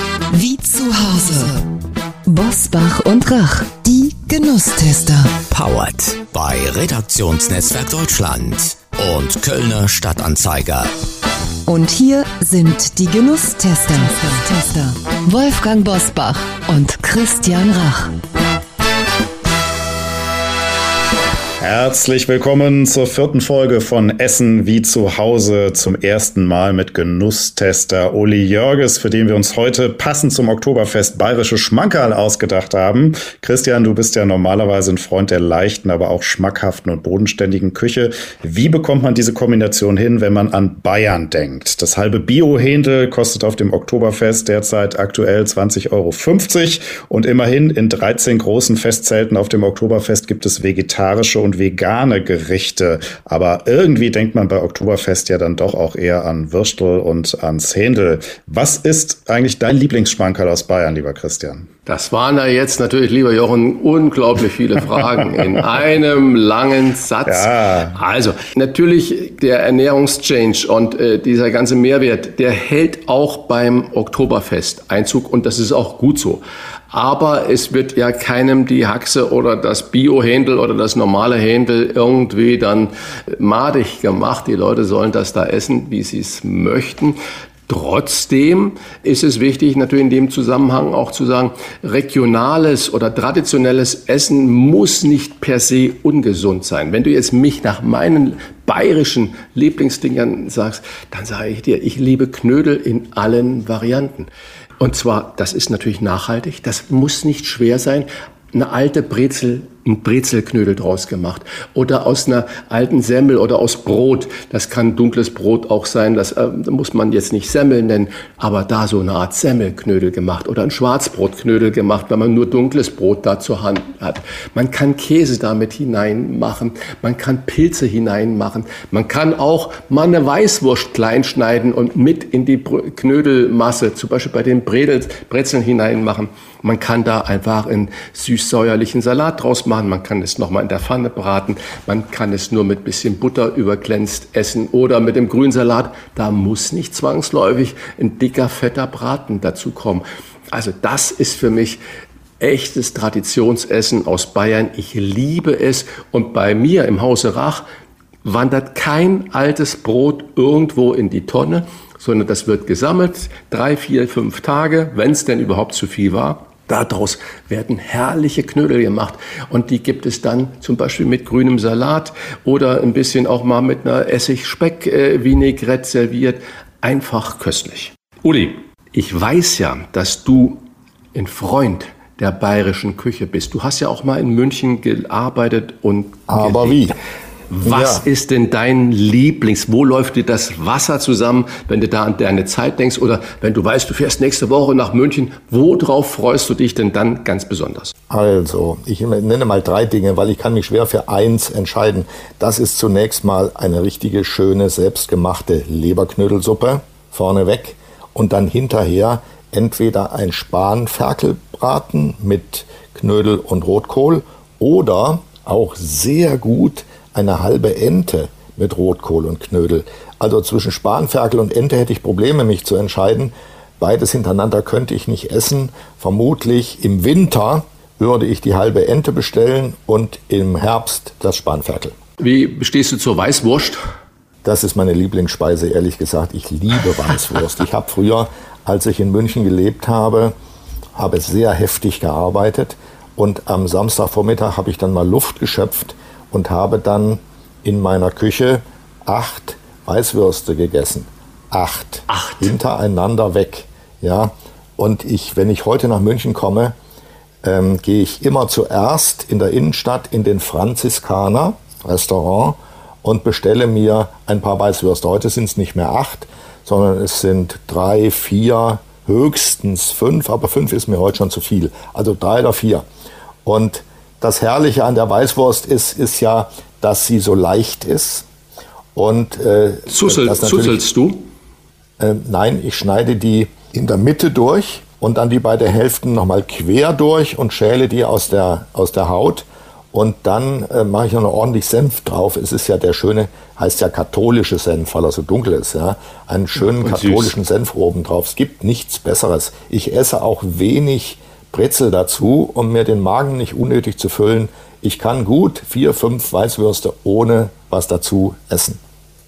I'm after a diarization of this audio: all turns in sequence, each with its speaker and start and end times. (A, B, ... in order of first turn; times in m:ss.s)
0:00.3-0:01.6 A
0:02.3-0:05.4 A
0:05.5-0:10.9 B
0:11.7-0:18.1 A
0:21.6-1:01.7 C
1:01.9-1:27.2 D
1:07.3-1:08.0 C
1:27.7-2:31.8 D
2:32.4-2:37.6 D
2:38.2-3:06.9 D
3:06.3-3:07.0 E
3:07.5-3:17.9 D
3:07.6-3:08.0 E
3:18.1-3:52.0 E
3:52.2-3:53.8 D
3:54.4-4:00.3 E
4:01.0-4:16.8 E
4:12.1-4:12.5 D
4:17.4-4:32.9 E
4:33.4-4:38.3 E
4:39.0-4:40.8 E
4:39.9-4:41.3 D
4:42.0-5:08.8 E
4:56.6-4:57.4 D